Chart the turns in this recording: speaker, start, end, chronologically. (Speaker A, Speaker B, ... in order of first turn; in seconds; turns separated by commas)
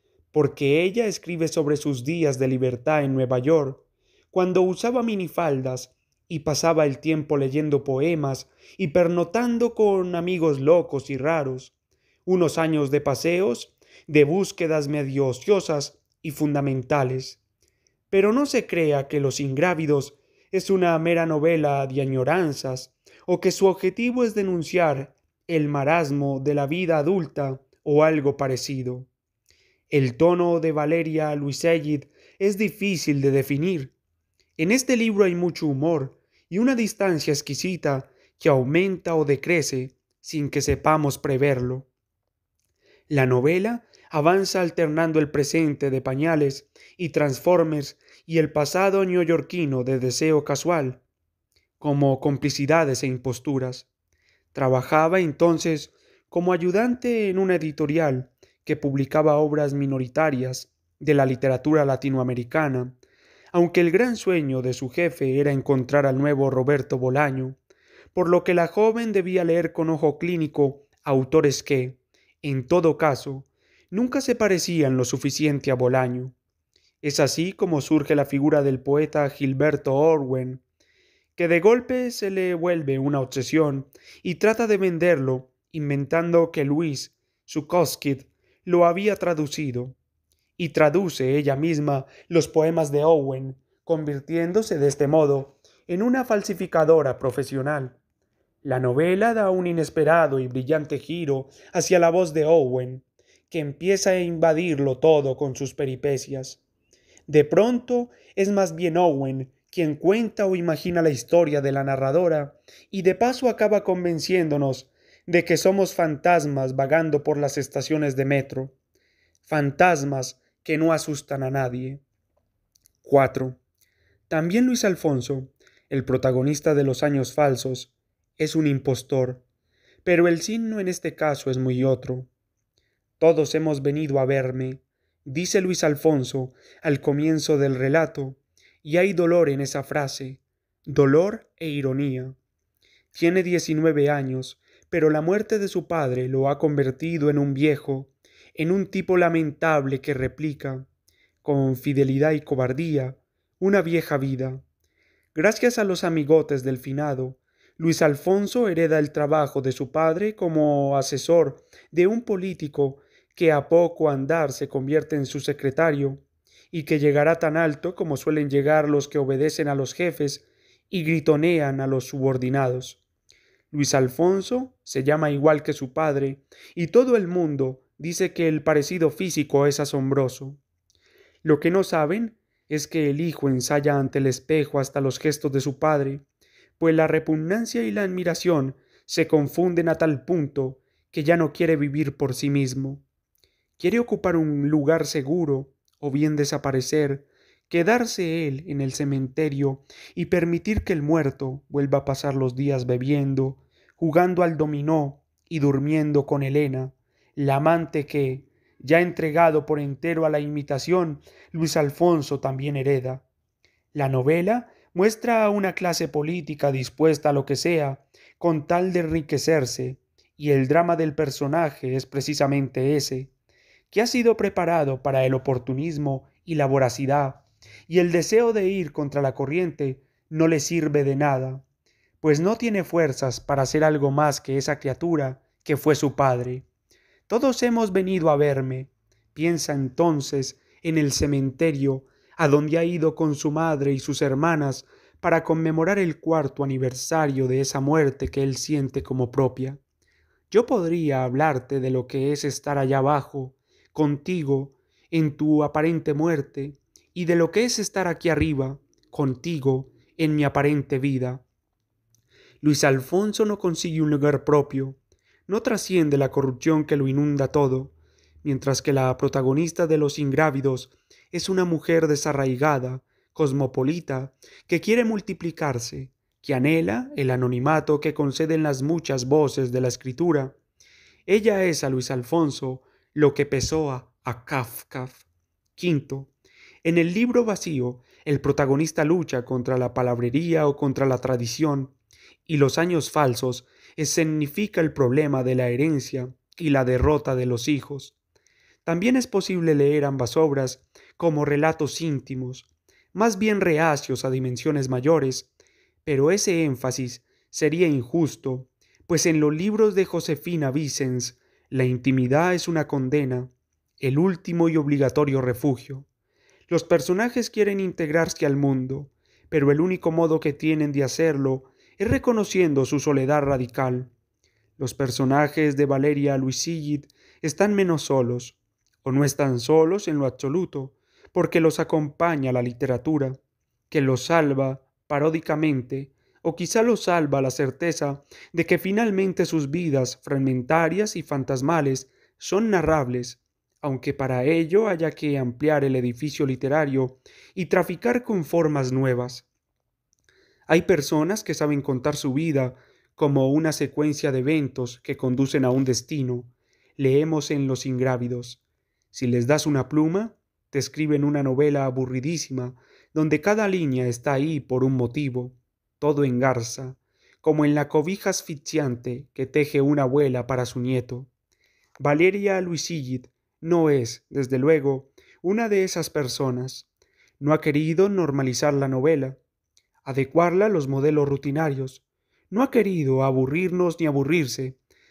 Speaker A: 0.3-11.7, Speaker A: 12.2-17.4, Speaker A: 18.1-29.1, Speaker A: 29.9-33.9, Speaker A: 34.6-41.9, Speaker A: 43.1-51.0, Speaker A: 51.8-53.9, Speaker A: 54.5-63.0, Speaker A: 63.5-67.6, Speaker A: 68.1-76.3, Speaker A: 77.0-80.6, Speaker A: 81.3-90.0, Speaker A: 90.6-98.0, Speaker A: 98.6-106.6, Speaker A: 107.3-118.7, Speaker A: 119.4-122.0, Speaker A: 123.0-123.6, Speaker A: 124.3-129.4, Speaker A: 130.0-132.3, Speaker A: 133.2-142.3, Speaker A: 143.1-150.9, Speaker A: 151.4-154.6, Speaker A: 155.3-173.0, Speaker A: 173.7-180.6, Speaker A: 181.4-186.2, Speaker A: 186.8-193.0, Speaker A: 193.8-213.2, Speaker A: 213.9-223.3, Speaker A: 223.9-231.6, Speaker A: 232.2-236.7, Speaker A: 237.3-249.8, Speaker A: 250.5-261.4, Speaker A: 262.6-280.6, Speaker A: 281.3-285.2, Speaker A: 285.7-286.3, Speaker A: 286.8-291.9, Speaker A: 292.4-298.1, Speaker A: 298.8-305.5, Speaker A: 306.0-316.1, Speaker A: 316.7-324.1, Speaker A: 324.8-333.4, Speaker A: 333.9-349.4, Speaker A: 350.7-358.6, Speaker A: 359.1-371.3, Speaker A: 372.0-376.9, Speaker A: 377.4-379.4, Speaker A: 380.0-384.8